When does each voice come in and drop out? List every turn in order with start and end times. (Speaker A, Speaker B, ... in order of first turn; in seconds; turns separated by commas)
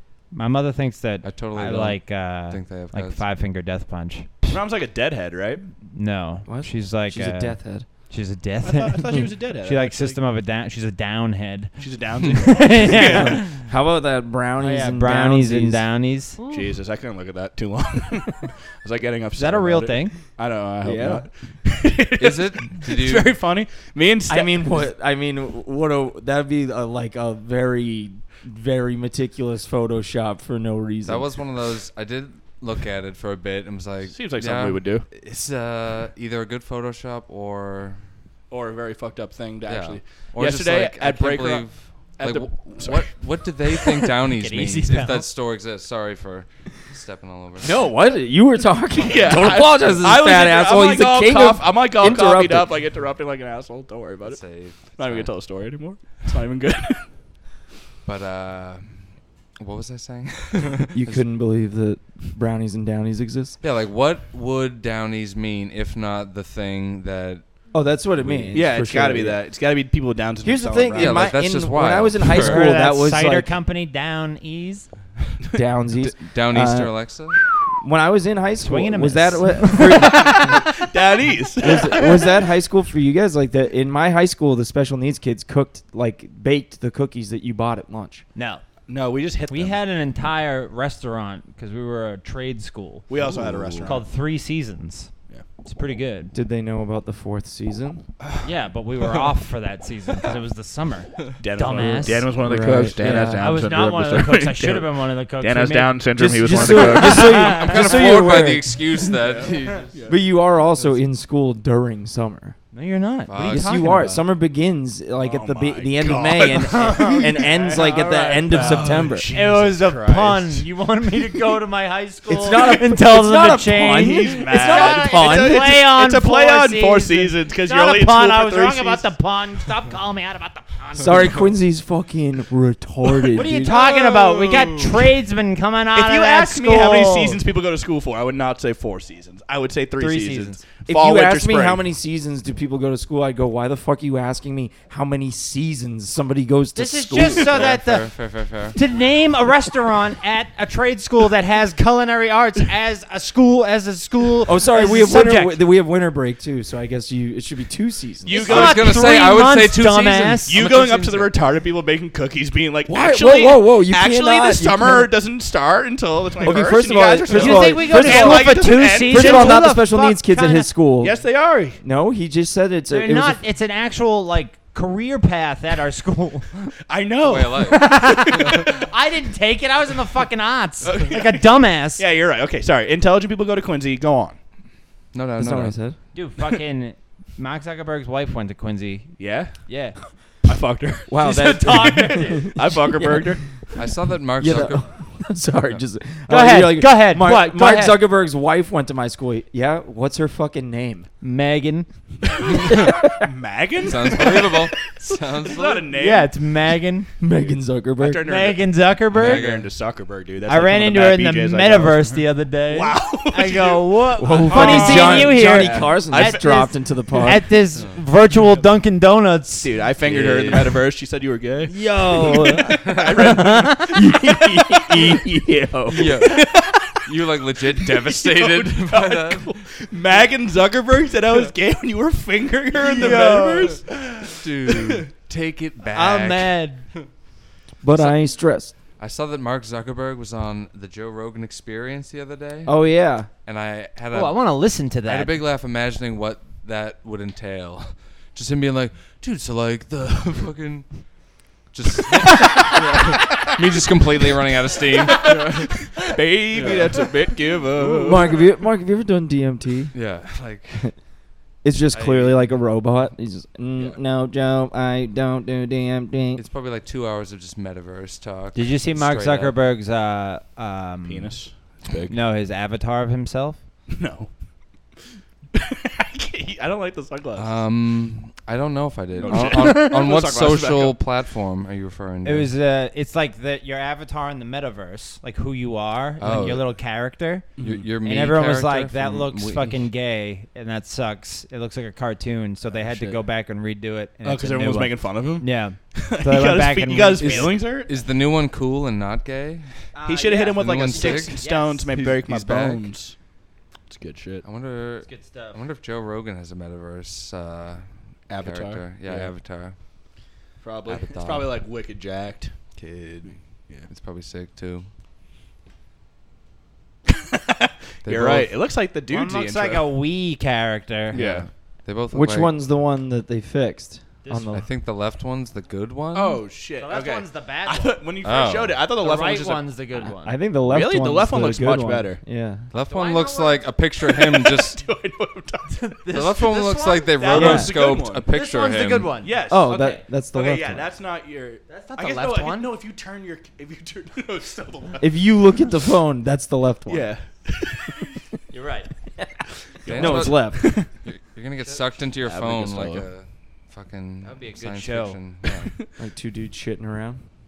Speaker A: 0.3-4.6, Speaker B: 1.2-3.2, Speaker C: 4.5-5.6, Speaker A: 5.9-7.6, Speaker D: 6.4-7.9, Speaker A: 8.1-13.6, Speaker C: 8.6-10.2, Speaker C: 11.8-13.5, Speaker D: 13.1-15.8, Speaker A: 14.6-16.4, Speaker C: 16.5-24.9, Speaker A: 19.4-20.1, Speaker D: 20.8-21.3, Speaker B: 22.2-23.3, Speaker D: 24.3-31.3, Speaker B: 31.1-38.0, Speaker C: 34.1-35.0, Speaker C: 38.5-41.6, Speaker B: 39.6-47.8, Speaker C: 42.2-43.1, Speaker A: 43.8-45.3, Speaker D: 47.6-52.7, Speaker C: 49.0-57.1, Speaker B: 54.2-55.3, Speaker B: 58.0-61.0, Speaker D: 60.9-63.6, Speaker B: 63.6-67.5, Speaker D: 67.7-69.4, Speaker B: 68.2-68.6, Speaker C: 68.5-71.4, Speaker D: 70.4-73.5, Speaker B: 70.9-72.7, Speaker A: 72.2-74.9, Speaker D: 75.5-76.9, Speaker B: 76.0-77.4, Speaker D: 77.8-80.6, Speaker A: 78.6-80.5, Speaker C: 79.9-82.4, Speaker D: 81.6-88.2, Speaker A: 88.4-88.6, Speaker C: 88.9-89.8, Speaker A: 89.5-93.1, Speaker C: 93.1-94.0, Speaker D: 93.2-93.9, Speaker A: 93.8-95.1, Speaker A: 95.6-96.3, Speaker D: 96.3-98.0, Speaker A: 98.4-102.4, Speaker C: 101.4-107.6, Speaker D: 101.9-103.5, Speaker A: 102.9-108.2, Speaker D: 106.2-108.8, Speaker B: 107.3-109.9, Speaker C: 109.2-110.2, Speaker D: 110.0-112.6, Speaker A: 112.7-114.2, Speaker B: 113.3-114.0, Speaker D: 113.4-119.3, Speaker C: 115.2-120.7, Speaker A: 116.5-131.6, Speaker D: 122.3-125.6, Speaker C: 124.0-129.1, Speaker D: 131.0-133.7, Speaker A: 133.3-137.4, Speaker C: 133.6-135.1, Speaker C: 135.9-141.8, Speaker A: 140.0-140.6, Speaker D: 140.9-147.7, Speaker A: 146.8-148.1, Speaker B: 147.3-148.8, Speaker A: 148.7-155.6, Speaker D: 154.4-158.5, Speaker C: 158.2-159.1, Speaker A: 158.3-160.6, Speaker B: 158.5-161.3, Speaker C: 160.5-169.7, Speaker D: 162.9-165.1, Speaker D: 166.4-171.2, Speaker A: 167.3-170.7, Speaker C: 171.0-171.8, Speaker D: 171.8-173.4, Speaker A: 172.9-176.7, Speaker C: 176.9-178.7, Speaker B: 177.2-177.9, Speaker A: 177.6-182.0, Speaker C: 180.8-184.4, Speaker B: 185.1-185.7, Speaker D: 185.4-186.0, Speaker A: 186.1-190.0, Speaker C: 189.2-189.7, Speaker C: 190.3-193.4, Speaker D: 191.1-193.4, Speaker A: 191.2-192.6, Speaker B: 193.8-195.8, Speaker D: 194.4-201.1, Speaker A: 196.3-198.1, Speaker A: 201.2-201.9, Speaker C: 202.2-206.3, Speaker D: 202.7-203.3, Speaker B: 203.8-205.9, Speaker A: 205.9-207.1, Speaker D: 207.2-208.3, Speaker C: 208.0-217.3, Speaker A: 208.2-209.6, Speaker B: 209.1-209.7, Speaker A: 210.4-219.8, Speaker D: 214.2-217.5, Speaker C: 219.6-227.0, Speaker B: 220.0-220.8, Speaker A: 221.7-223.9, Speaker D: 221.9-222.9, Speaker D: 223.9-225.9, Speaker B: 225.9-229.6, Speaker C: 227.6-235.1, Speaker A: 232.8-233.8, Speaker B: 234.3-237.0, Speaker A: 235.9-236.9, Speaker D: 237.8-238.7, Speaker B: 237.9-238.4, Speaker B: 239.0-242.8, Speaker D: 242.7-243.3, Speaker B: 243.4-244.5, Speaker A: 244.1-245.4, Speaker B: 245.0-257.1, Speaker C: 252.4-253.2, Speaker C: 254.9-258.3, Speaker B: 257.8-258.2, Speaker D: 257.9-259.9, Speaker B: 259.9-260.9, Speaker D: 261.6-266.4, Speaker B: 261.9-262.4, Speaker B: 266.4-269.6, Speaker A: 268.5-271.4, Speaker C: 271.1-272.1, Speaker A: 272.1-273.6, Speaker C: 273.9-274.3, Speaker C: 275.5-277.5, Speaker B: 277.3-282.5, Speaker C: 279.2-281.0, Speaker A: 279.2-279.9, Speaker A: 282.2-287.5, Speaker B: 286.2-286.6, Speaker C: 287.6-287.9, Speaker B: 287.6-289.8, Speaker A: 288.0-297.6, Speaker C: 294.2-297.9, Speaker B: 297.2-299.8, Speaker A: 299.9-301.9, Speaker C: 300.1-303.2, Speaker B: 300.5-302.9, Speaker C: 303.9-304.4, Speaker B: 304.4-309.8, Speaker A: 305.1-305.6, Speaker C: 308.3-309.3, Speaker C: 310.6-312.8, Speaker B: 310.9-311.6, Speaker B: 312.8-314.9, Speaker C: 317.1-319.9, Speaker B: 318.0-318.5, Speaker A: 319.1-321.2, Speaker C: 321.1-321.5, Speaker B: 321.1-322.5, Speaker D: 322.1-324.6, Speaker A: 324.2-324.6, Speaker B: 324.5-326.4, Speaker C: 326.1-329.7, Speaker A: 326.8-328.1, Speaker B: 328.2-328.8, Speaker A: 328.9-330.4, Speaker D: 330.0-332.7, Speaker C: 330.6-332.2, Speaker B: 332.7-334.8, Speaker A: 332.9-333.7, Speaker C: 334.0-336.5, Speaker A: 335.7-337.6, Speaker B: 336.1-339.1, Speaker C: 337.1-338.3, Speaker D: 337.3-337.7, Speaker A: 338.3-339.9, Speaker C: 339.2-345.2, Speaker D: 339.5-340.9, Speaker A: 341.7-342.7, Speaker D: 345.0-347.1, Speaker C: 346.9-348.1, Speaker A: 348.5-348.9, Speaker C: 349.8-350.9, Speaker D: 349.8-350.8, Speaker B: 349.9-355.8, Speaker C: 352.2-353.1, Speaker A: 354.2-355.2, Speaker D: 355.9-357.3